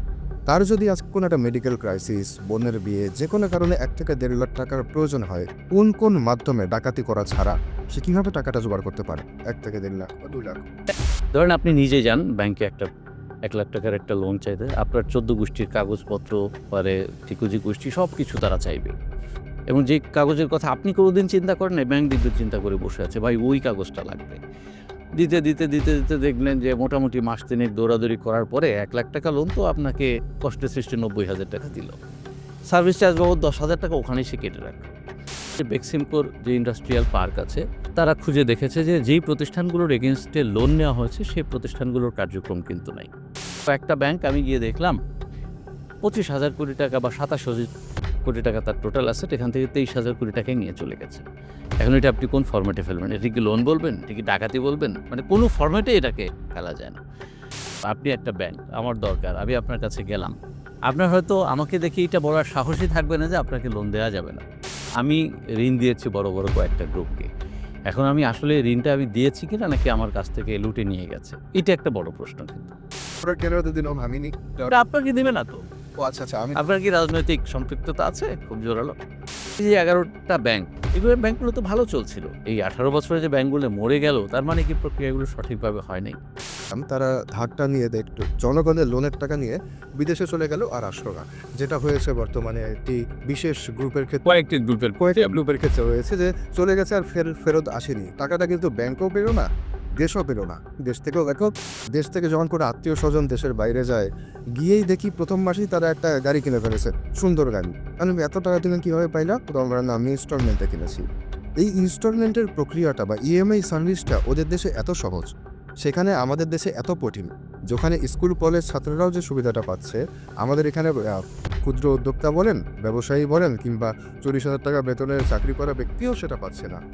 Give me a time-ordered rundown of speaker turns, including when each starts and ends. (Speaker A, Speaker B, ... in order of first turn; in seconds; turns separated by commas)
Speaker A: 0.5-10.7, Speaker B: 11.4-12.9, Speaker B: 13.5-18.9, Speaker B: 19.7-24.4, Speaker B: 25.2-31.9, Speaker B: 32.7-34.9, Speaker B: 35.6-43.1, Speaker B: 43.7-45.0, Speaker B: 46.0-47.7, Speaker B: 48.2-51.2, Speaker B: 51.8-57.0, Speaker B: 57.8-60.4, Speaker B: 60.9-64.4, Speaker B: 65.0-67.3, Speaker B: 67.9-72.7, Speaker A: 73.2-74.7, Speaker B: 74.7-75.6, Speaker A: 76.0-76.6, Speaker B: 76.6-79.0, Speaker B: 79.6-86.2, Speaker A: 86.7-94.3, Speaker B: 94.2-95.4, Speaker A: 95.0-99.5, Speaker A: 100.0-104.1, Speaker A: 104.6-111.0, Speaker A: 111.6-126.8